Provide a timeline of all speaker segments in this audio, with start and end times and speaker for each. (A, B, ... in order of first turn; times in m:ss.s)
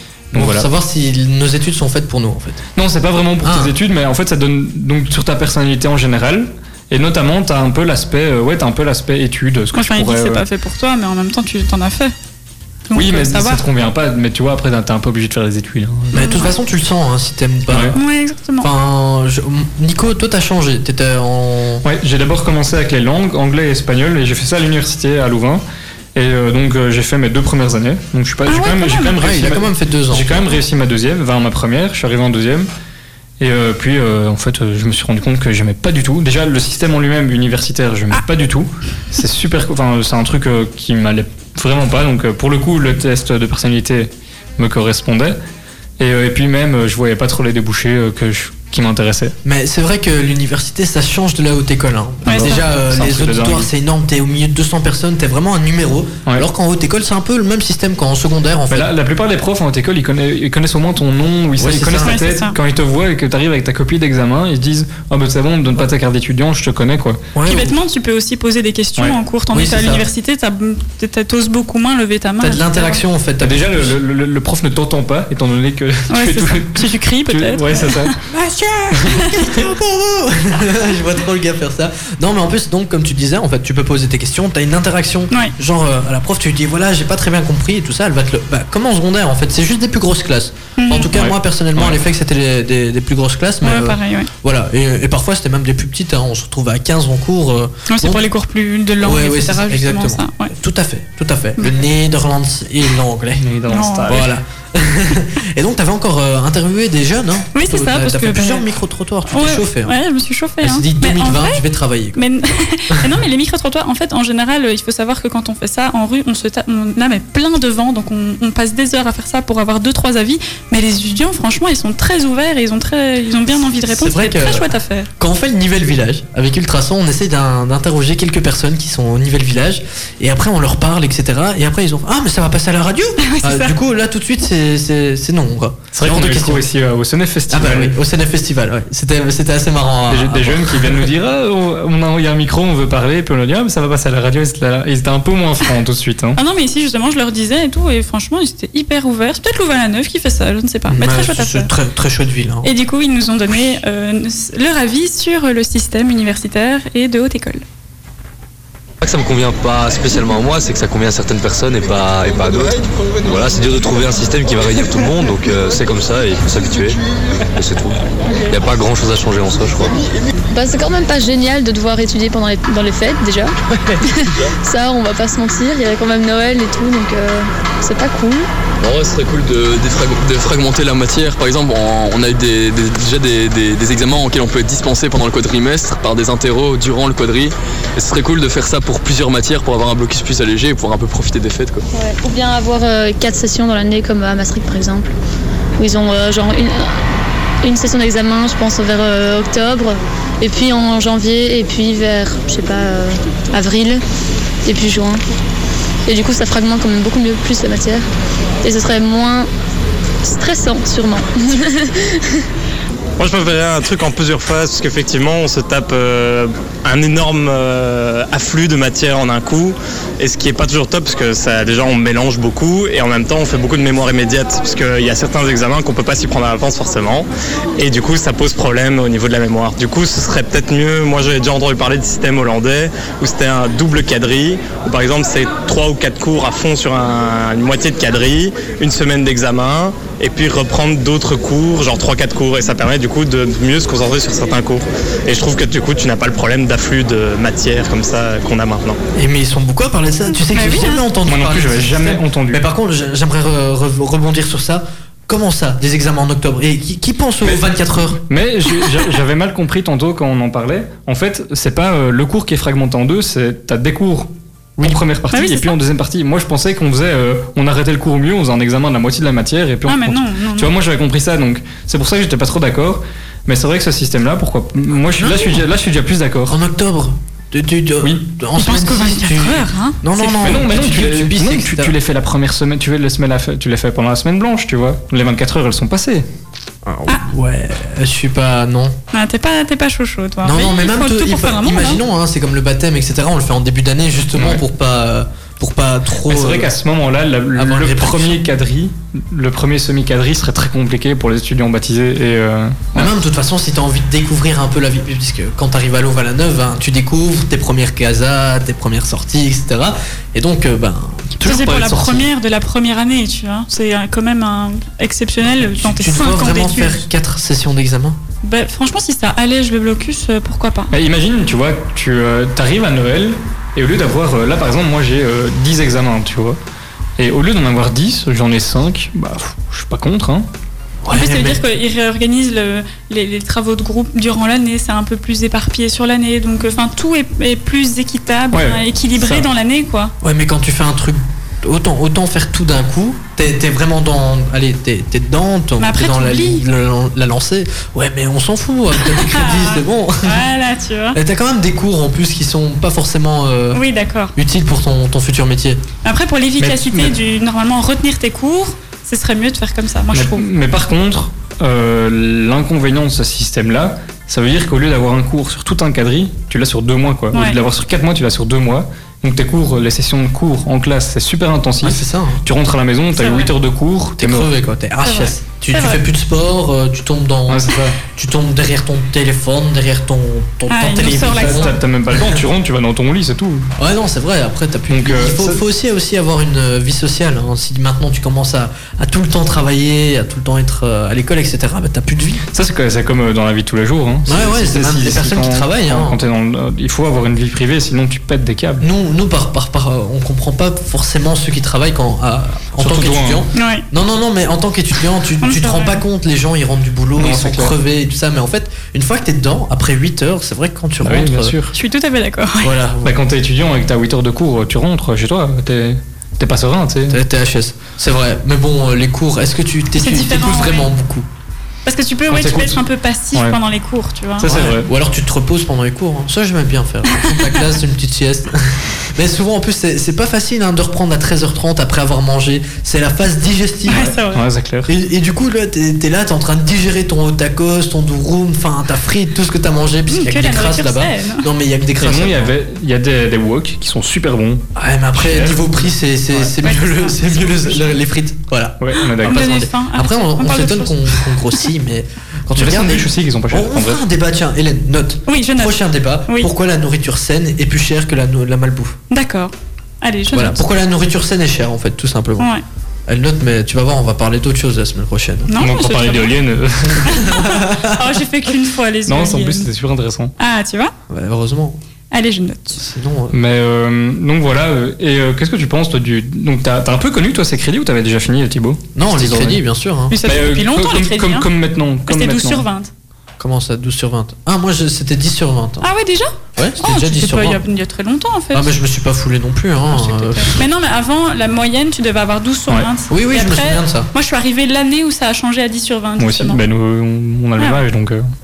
0:00.3-0:00.7 A
0:00.3-0:02.6 B
0:02.8-0:10.4 A
0:03.4-0:03.7 B
0:09.7-0:12.1 C
0:12.9-0:13.6 C
0:12.9-0:16.5 A
0:16.1-0:18.0 B
0:16.1-0:16.5 C
0:17.7-0:18.0 A
0:17.9-0:18.7 C
0:18.6-0:21.8 B
0:21.8-0:25.6 A
0:26.1-0:32.7 A
0:28.4-0:29.2 C
0:29.2-0:30.4 B
0:33.4-0:45.4 A
0:46.0-0:49.4 A
0:49.4-0:58.9 B
0:52.2-0:52.6 C
0:52.3-0:53.7 A
0:58.7-1:07.2 A
1:01.6-1:02.2 B
1:02.0-1:02.6 C
1:07.3-1:07.7 B
1:07.4-1:13.0 C
1:09.5-1:10.0 B
1:12.4-1:14.0 B
1:13.4-1:18.1 A
1:16.1-1:18.2 C
1:18.3-1:38.2 B
1:19.1-1:19.4 C
1:30.8-1:31.1 C
1:31.1-1:32.0 A
1:33.6-1:34.3 C
1:37.9-1:40.5 C
1:39.0-1:43.4 B
1:43.3-1:44.3 A
1:43.7-1:44.3 C
1:44.1-1:49.9 B
1:47.5-1:48.6 C
1:49.3-1:51.6 C
1:50.6-1:52.2 B
1:52.1-2:05.1 C
2:03.9-2:16.6 B
2:13.2-2:13.7 C
2:15.9-2:18.0 A
2:17.5-2:21.1 B
2:20.1-2:26.4 A
2:26.4-2:31.7 C
2:30.9-2:32.7 B
2:32.6-2:37.6 C
2:39.0-2:47.0 D
2:47.5-2:50.0 D
2:50.5-2:58.5 E
2:58.8-3:11.8 F
3:11.9-3:15.1 E
3:15.8-3:17.0 E
3:17.6-3:24.0 E
3:24.6-3:25.2 E
3:26.0-3:28.0 E
3:28.6-3:29.5 E
3:30.2-3:32.2 E
3:33.2-4:09.0 G
4:09.2-4:18.2 B
4:10.4-4:11.0 C
4:11.2-4:12.6 A
4:18.3-4:36.6 A
4:25.3-4:25.7 C
4:29.8-4:30.7 C
4:35.2-4:35.6 B
4:36.5-4:41.9 B
4:38.6-4:40.5 C
4:40.2-4:46.2 A
4:46.8-4:49.0 B
4:49.1-4:52.0 C
4:50.4-4:56.7 B
4:54.4-4:54.6 A
4:56.2-5:03.1 A
4:57.5-4:58.4 B
5:02.9-5:12.2 B
5:11.4-5:17.0 C
5:11.5-5:12.0 A
5:15.5-5:18.2 B
5:18.4-5:20.9 C
5:20.9-5:26.6 A
5:27.2-5:30.5 A
5:31.0-5:31.6 B
5:31.1-5:40.1 C
5:38.5-5:39.5 A
5:40.2-5:50.4 B
5:45.8-5:46.6 C
5:48.9-5:51.2 C
5:51.1-5:53.8 B
5:53.7-5:54.3 C
5:54.3-5:55.8 B
5:56.0-6:00.4 C
5:56.6-5:57.2 A
6:00.1-6:14.5 A
6:07.3-6:07.6 C
6:11.8-6:12.4 B
6:13.1-6:13.5 C
6:14.2-6:22.4 B
6:15.0-6:16.0 C
6:17.5-6:18.0 A
6:20.7-6:21.8 C
6:21.1-6:23.7 A
6:23.8-6:32.4 B
6:24.9-6:25.6 A
6:32.5-6:38.8 A
6:34.3-6:36.2 B
6:38.8-6:51.5 B
6:42.8-6:43.4 A
6:43.5-6:43.8 C
6:45.4-6:46.0 C
6:47.2-6:47.7 A
6:51.0-6:51.7 A
6:51.7-6:52.7 C
6:52.6-6:53.2 B
6:53.0-6:57.2 A
6:57.1-7:01.2 B
7:00.0-7:00.9 C
7:01.8-7:04.5 C
7:02.3-7:02.8 A
7:04.4-7:04.9 A
7:04.4-7:14.1 B
7:07.1-7:07.7 C
7:13.9-7:14.4 C
7:14.3-7:14.9 A
7:14.9-7:22.5 B
7:20.1-7:21.5 C
7:22.0-7:26.5 A
7:24.8-7:39.0 B
7:26.6-7:27.9 C
7:28.8-7:29.6 A
7:29.2-7:31.6 C
7:32.6-7:34.0 A
7:35.3-7:35.8 C
7:39.1-7:40.6 C
7:40.3-7:42.5 B
7:43.1-7:45.5 B
7:45.5-7:46.4 C
7:45.6-7:47.4 A
7:47.0-7:48.0 B
7:47.1-7:49.7 C
7:49.1-7:50.3 A
7:50.4-7:50.9 C
7:51.1-7:51.8 B
7:52.1-7:52.8 C
7:52.8-7:53.4 B
7:53.3-7:59.6 A
7:58.9-8:00.2 B
8:00.1-8:01.5 C
8:00.2-8:02.6 A
8:02.1-8:02.9 C
8:03.4-8:05.9 B
8:05.8-8:08.7 C
8:06.6-8:07.6 B
8:08.5-8:10.6 B
8:09.9-8:16.6 C
8:13.1-8:14.1 B
8:16.2-8:18.3 A
8:17.6-8:17.8 C